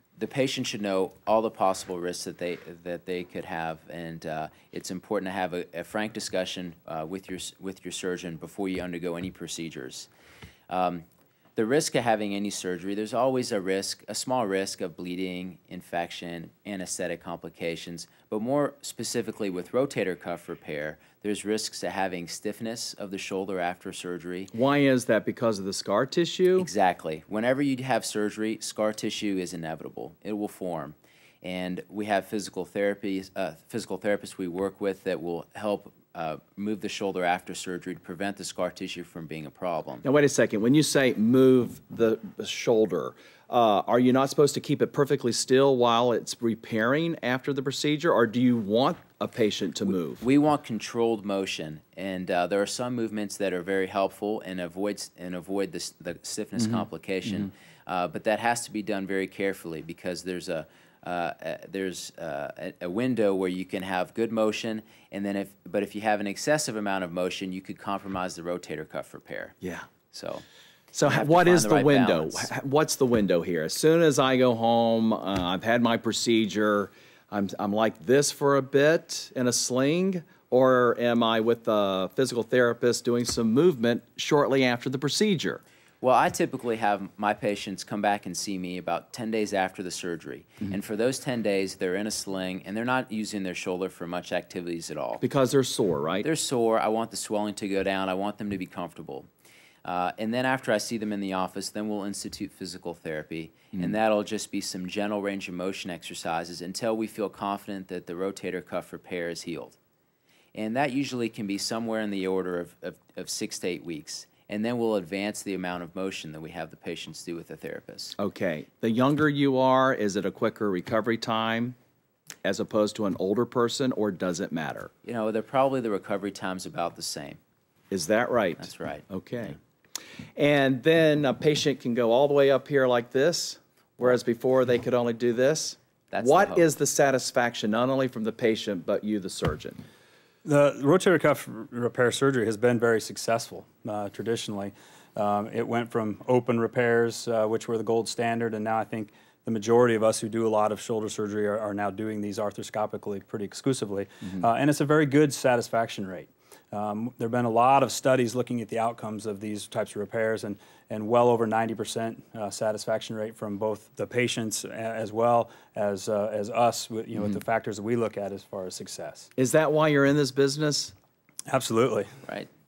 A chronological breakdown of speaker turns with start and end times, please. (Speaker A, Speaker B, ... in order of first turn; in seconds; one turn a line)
Speaker A: 0.2-10.1
Speaker A: 10.7-11.0
Speaker A: 11.6-24.5
Speaker B: 24.5-26.7
Speaker A: 26.6-40.0
Speaker B: 40.0-50.2
Speaker A: 50.2-69.5
Speaker B: 56.6-57.5
Speaker B: 69.6-69.9
Speaker A: 70.1-70.4
Speaker B: 70.9-85.6
Speaker A: 71.0-72.5
Speaker A: 86.0-95.2
Speaker B: 95.2-96.3
Speaker A: 96.2-99.3
Speaker A: 99.8-109.8
Speaker A: 110.5-118.1
Speaker B: 118.2-121.8
Speaker B: 122.4-124.9
Speaker A: 125.0-127.4
Speaker B: 127.9-129.6
Speaker A: 128.6-129.5
Speaker B: 130.3-139.8
Speaker A: 136.1-136.6
Speaker C: 140.4-169.3
Speaker B: 169.3-170.9
Speaker C: 171.5-172.1